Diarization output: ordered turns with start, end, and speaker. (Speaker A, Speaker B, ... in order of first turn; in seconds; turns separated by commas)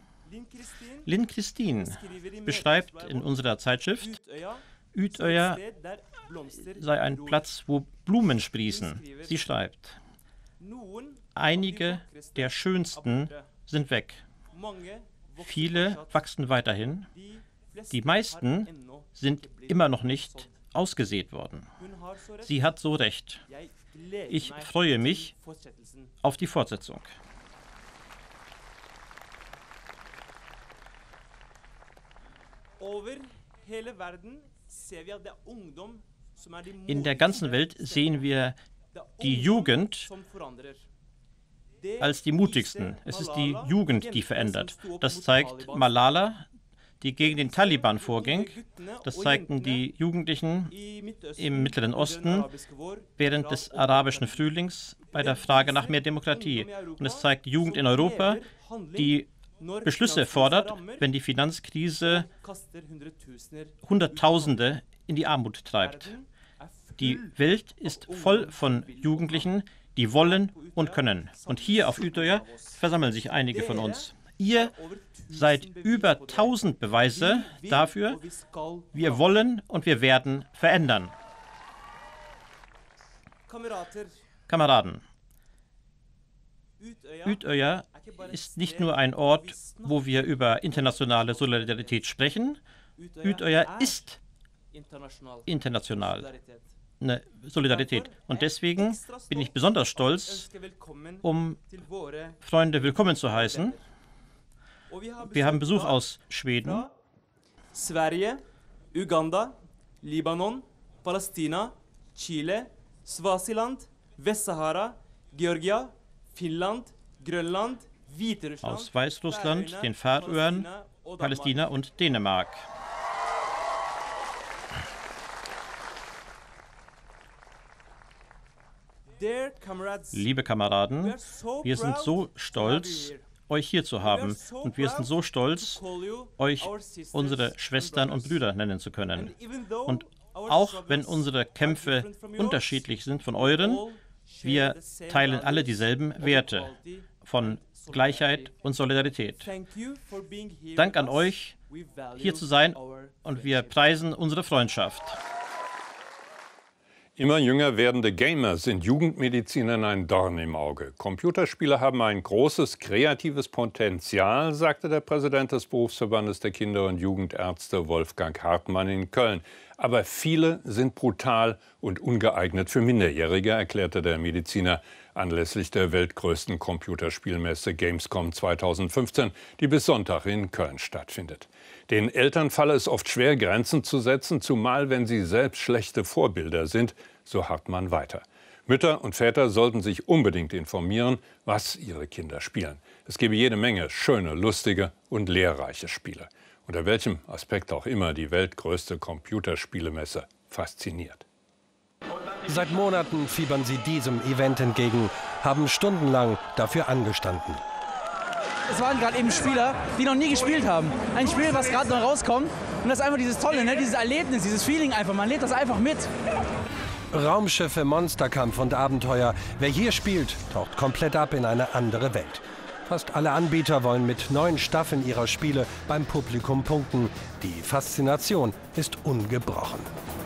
Speaker A: 0.3-1.1, Speaker B: 1.1-4.2, Speaker A: 1.7-7.6, Speaker B: 4.9-5.6, Speaker B: 6.6-10.0, Speaker A: 8.4-9.5, Speaker A: 10.6-13.7, Speaker B: 11.3-14.3, Speaker A: 14.5-16.3, Speaker B: 15.4-17.1, Speaker A: 17.1-20.8, Speaker B: 17.9-21.7, Speaker A: 21.8-22.7, Speaker B: 22.4-23.4, Speaker A: 23.4-26.1, Speaker B: 24.3-25.3, Speaker B: 26.2-27.1, Speaker A: 32.8-38.3, Speaker B: 36.9-38.6, Speaker A: 38.9-40.9, Speaker B: 39.2-40.1, Speaker A: 41.8-46.2, Speaker B: 42.0-46.5, Speaker B: 47.0-52.5, Speaker A: 47.2-49.9, Speaker A: 50.7-54.5, Speaker B: 53.1-58.4, Speaker A: 55.0-61.1, Speaker B: 59.0-59.3, Speaker B: 59.8-62.3, Speaker A: 62.0-65.0, Speaker B: 63.8-66.2, Speaker A: 65.7-79.4, Speaker B: 67.0-74.8, Speaker B: 75.3-78.2, Speaker B: 78.9-81.1, Speaker A: 83.5-84.2, Speaker B: 84.5-85.0, Speaker A: 86.8-92.2, Speaker B: 87.2-92.6, Speaker A: 93.0-94.1, Speaker B: 93.2-94.2, Speaker A: 94.7-96.9, Speaker B: 95.5-96.3, Speaker B: 97.0-100.5, Speaker A: 97.6-103.9, Speaker B: 101.2-101.6, Speaker B: 102.4-103.8, Speaker A: 104.9-106.9, Speaker B: 105.2-106.8, Speaker A: 107.7-121.8, Speaker B: 118.6-122.6, Speaker A: 129.1-130.3, Speaker B: 130.1-143.9, Speaker A: 131.0-133.4, Speaker A: 134.0-138.4, Speaker A: 139.1-148.7, Speaker B: 144.4-149.6, Speaker A: 149.3-154.0, Speaker B: 150.8-151.6, Speaker B: 152.2-155.2, Speaker C: 157.2-201.2, Speaker D: 202.5-207.6, Speaker E: 208.7-216.1, Speaker D: 217.1-229.9